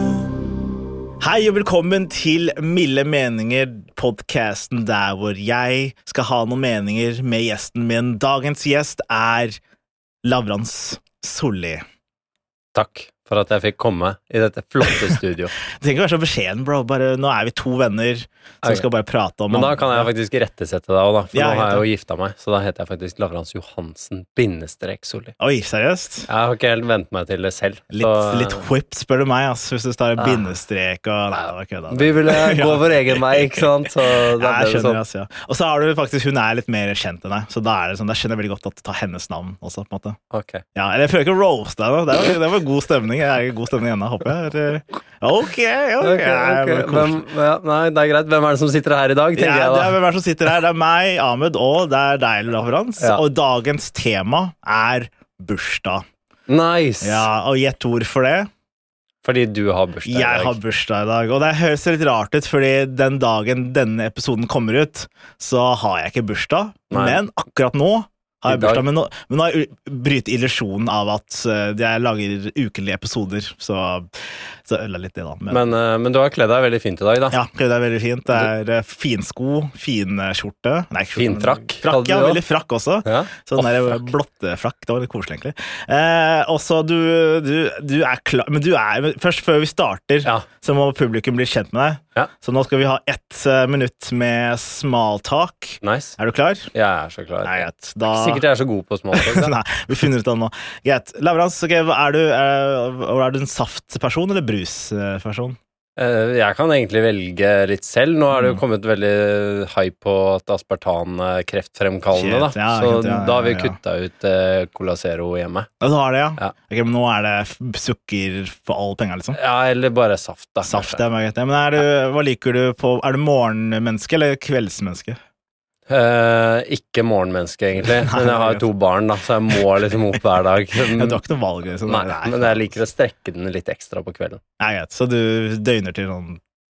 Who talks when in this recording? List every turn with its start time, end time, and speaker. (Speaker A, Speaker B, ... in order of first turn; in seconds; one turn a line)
Speaker A: 1.2-9.6
Speaker A: 10.2-11.8
Speaker B: 12.7-15.5
Speaker A: 15.7-20.1
Speaker B: 19.5-25.3
Speaker A: 21.3-21.8
Speaker A: 25.4-26.3
Speaker B: 26.3-28.6
Speaker A: 27.9-40.2
Speaker B: 30.2-30.5
Speaker B: 31.3-35.0
Speaker B: 40.3-40.6
Speaker A: 40.7-47.1
Speaker B: 46.0-50.0
Speaker A: 49.4-56.0
Speaker B: 56.5-57.3
Speaker A: 57.0-58.5
Speaker B: 59.2-60.6
Speaker A: 60.0-75.7
Speaker B: 66.9-67.2
Speaker B: 68.5-68.8
Speaker B: 75.5-77.3
Speaker A: 77.3-96.7
Speaker B: 81.2-82.4
Speaker B: 83.0-84.1
Speaker B: 95.8-96.2
Speaker B: 96.7-99.5
Speaker A: 97.4-98.4
Speaker A: 99.1-105.6
Speaker B: 106.0-115.7
Speaker A: 112.1-113.8
Speaker A: 115.8-119.4
Speaker B: 119.3-121.0
Speaker A: 120.6-125.2
Speaker B: 125.9-131.2
Speaker A: 127.8-128.7
Speaker A: 130.9-132.7
Speaker B: 131.8-134.4
Speaker A: 134.6-136.4